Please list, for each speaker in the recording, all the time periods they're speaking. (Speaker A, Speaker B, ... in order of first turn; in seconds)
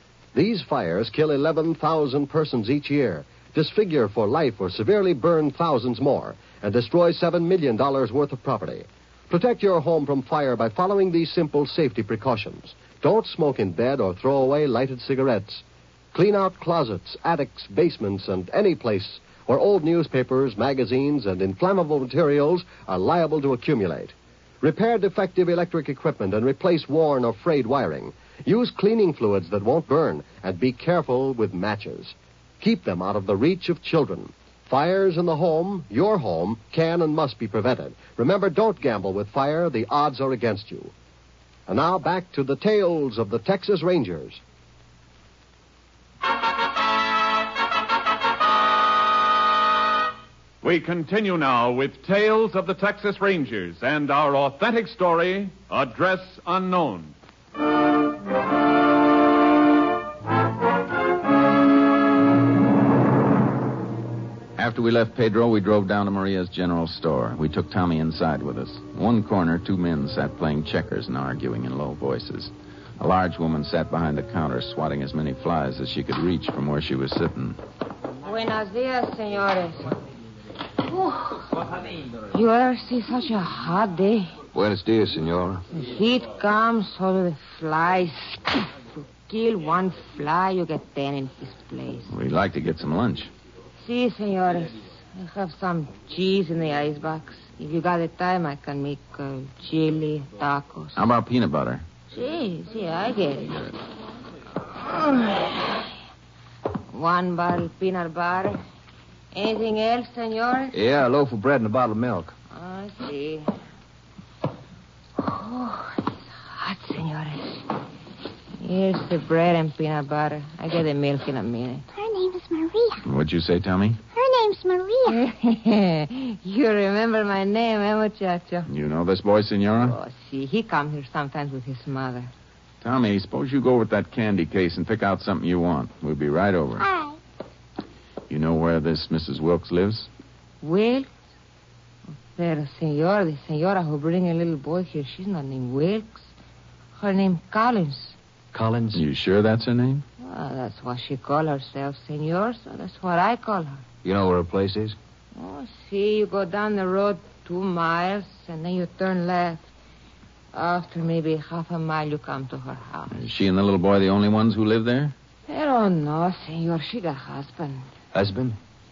Speaker A: 0.3-40.9, 41.7-44.4
Speaker B: 50.6-57.1
Speaker C: 64.6-77.6, 92.1-93.3, 101.0-101.8, 123.0-124.0, 128.7-129.9, 132.8-136.9, 138.3-140.1, 148.9-150.0, 163.1-165.1
Speaker D: 78.2-80.0, 80.9-81.4, 82.3-84.3, 85.7-88.7, 89.3-92.1, 93.8-101.1, 102.1-103.8, 104.8-105.8, 106.9-108.6, 109.3-110.8, 112.5-113.5, 115.2-117.7, 118.6-121.9, 125.1-128.7, 129.8-132.3, 140.6-141.1, 142.3-146.3, 147.0-148.2, 150.2-153.8, 155.3-159.7, 160.5-163.2, 165.5-167.8
Speaker E: 84.5-85.6, 110.7-112.3, 148.5-149.1, 154.0-155.0, 168.1-168.6
Speaker F: 122.0-123.0, 124.1-125.2, 136.8-137.2